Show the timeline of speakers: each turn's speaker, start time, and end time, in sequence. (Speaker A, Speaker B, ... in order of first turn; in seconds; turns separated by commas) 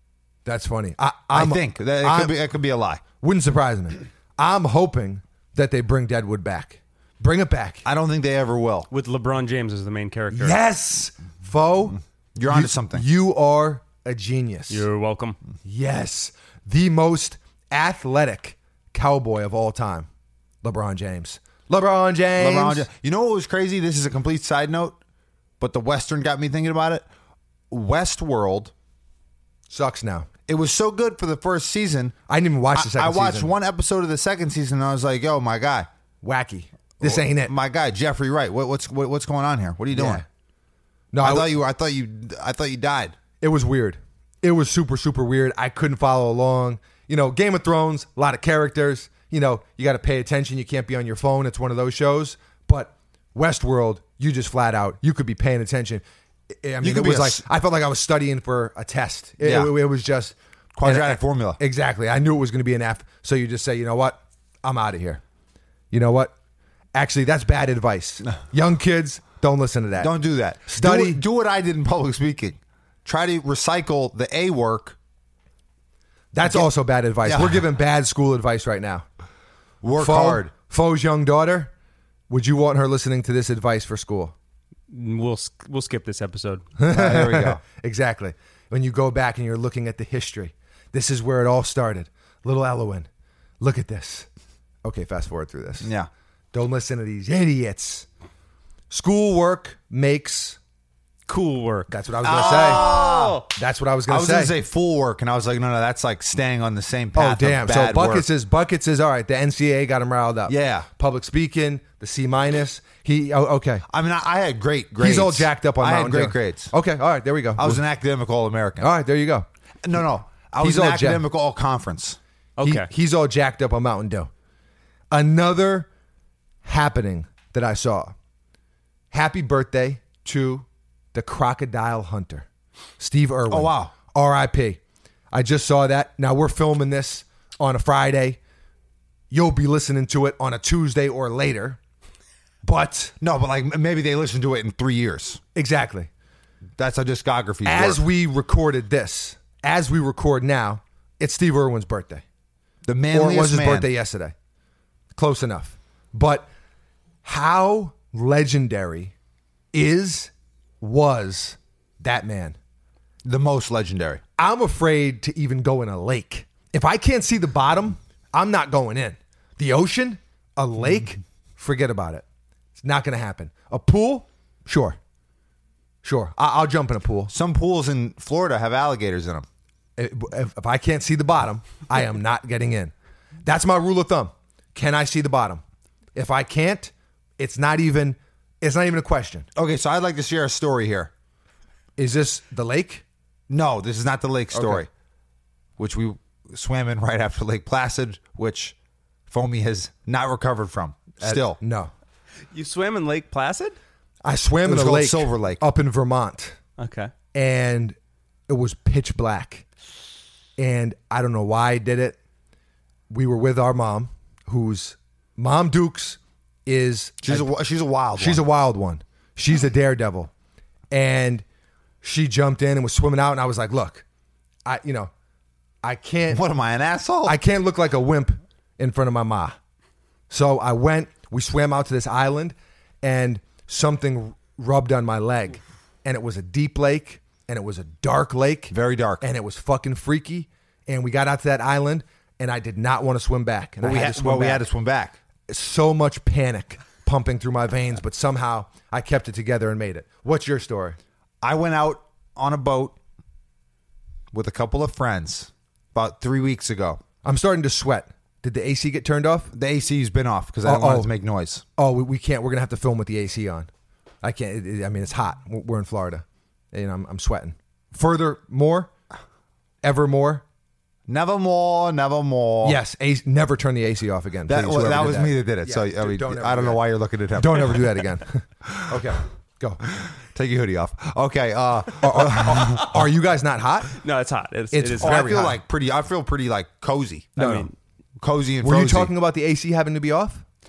Speaker A: 0.5-2.3, Speaker B: 1.3-3.0, Speaker A: 3.2-7.8, Speaker B: 7.8-8.9, Speaker C: 8.9-10.6, Speaker A: 10.3-14.8, Speaker B: 12.3-13.0, Speaker C: 14.7-15.4, Speaker A: 15.6-20.1, Speaker A: 20.6-22.9, Speaker B: 22.4-25.0, Speaker B: 25.6-27.0, Speaker B: 27.7-28.7, Speaker A: 29.7-30.3, Speaker B: 30.5-32.1, Speaker A: 32.3-33.5, Speaker B: 32.7-35.9, Speaker A: 36.2-37.5, Speaker B: 37.0-40.2, Speaker A: 39.9-40.2, Speaker A: 41.1-41.5, Speaker B: 41.2-43.1, Speaker A: 43.4-56.0, Speaker A: 56.6-65.2, Speaker B: 56.8-57.4, Speaker B: 59.4-59.7, Speaker B: 60.8-61.6, Speaker A: 65.9-66.3, Speaker A: 66.9-70.1, Speaker B: 70.0-75.0, Speaker A: 70.7-71.2, Speaker A: 76.3-79.0, Speaker B: 77.2-77.6, Speaker B: 79.8-80.5, Speaker A: 80.0-81.7, Speaker A: 82.3-84.3, Speaker C: 84.9-86.6, Speaker A: 86.8-93.1, Speaker B: 86.9-87.6, Speaker A: 93.6-94.3, Speaker A: 94.8-95.9, Speaker B: 95.8-96.1, Speaker A: 96.5-98.1, Speaker A: 98.9-100.6, Speaker C: 101.3-103.5, Speaker A: 101.9-102.9, Speaker B: 102.2-103.5, Speaker A: 103.5-104.5, Speaker B: 104.1-108.2, Speaker A: 107.1-113.8, Speaker B: 110.5-110.9, Speaker B: 113.9-116.7, Speaker A: 115.0-117.8, Speaker B: 117.6-118.9, Speaker A: 118.8-119.5, Speaker B: 119.8-122.2, Speaker A: 120.6-121.2, Speaker C: 122.6-122.9, Speaker A: 122.6-124.3, Speaker A: 125.1-125.9, Speaker A: 126.6-128.1, Speaker A: 129.1-132.4, Speaker A: 133.0-134.8, Speaker B: 133.5-133.9, Speaker A: 135.3-138.4, Speaker A: 139.3-141.8, Speaker A: 142.6-143.1, Speaker B: 143.2-145.4, Speaker A: 145.5-146.1, Speaker B: 146.8-148.0, Speaker A: 147.6-152.2, Speaker B: 152.8-153.9, Speaker A: 153.1-154.3, Speaker A: 155.1-156.4, Speaker A: 157.2-159.1, Speaker A: 159.7-162.6, Speaker B: 163.2-164.2, Speaker A: 164.4-172.2, Speaker A: 172.8-175.0, Speaker A: 176.0-177.3, Speaker B: 177.3-179.4, Speaker A: 180.0-182.9, Speaker A: 183.4-185.6, Speaker A: 186.1-189.5, Speaker B: 189.6-191.1, Speaker A: 192.0-193.0, Speaker B: 193.5-194.9, Speaker A: 194.5-194.8, Speaker B: 195.8-198.7, Speaker B: 199.3-201.6, Speaker A: 201.2-201.9, Speaker C: 202.5-203.8, Speaker A: 204.2-206.6, Speaker B: 204.6-205.6, Speaker C: 206.8-207.1, Speaker A: 207.3-207.9, Speaker A: 208.5-209.6, Speaker A: 210.6-212.2, Speaker A: 213.1-217.5, Speaker B: 217.2-218.4, Speaker A: 218.2-220.3, Speaker A: 220.9-221.4, Speaker A: 222.0-224.0, Speaker A: 224.7-225.1, Speaker A: 225.8-226.4, Speaker B: 226.3-227.3, Speaker A: 227.2-229.6, Speaker A: 230.3-244.6, Speaker B: 238.7-239.2, Speaker B: 243.8-245.2, Speaker A: 245.5-251.0, Speaker B: 251.4-252.9, Speaker B: 254.3-257.0, Speaker A: 257.2-259.5, Speaker B: 259.5-261.6, Speaker A: 260.6-261.1, Speaker A: 261.8-263.7, Speaker A: 264.2-268.9, Speaker A: 269.8-270.4, Speaker B: 271.1-272.8, Speaker A: 272.6-276.8, Speaker B: 274.5-278.0, Speaker A: 277.3-279.8, Speaker B: 280.3-283.0, Speaker A: 282.0-284.0, Speaker C: 283.9-285.2, Speaker A: 284.7-285.6, Speaker B: 285.0-287.4, Speaker A: 287.4-287.7, Speaker C: 287.4-287.7, Speaker B: 288.2-289.1, Speaker A: 288.6-290.4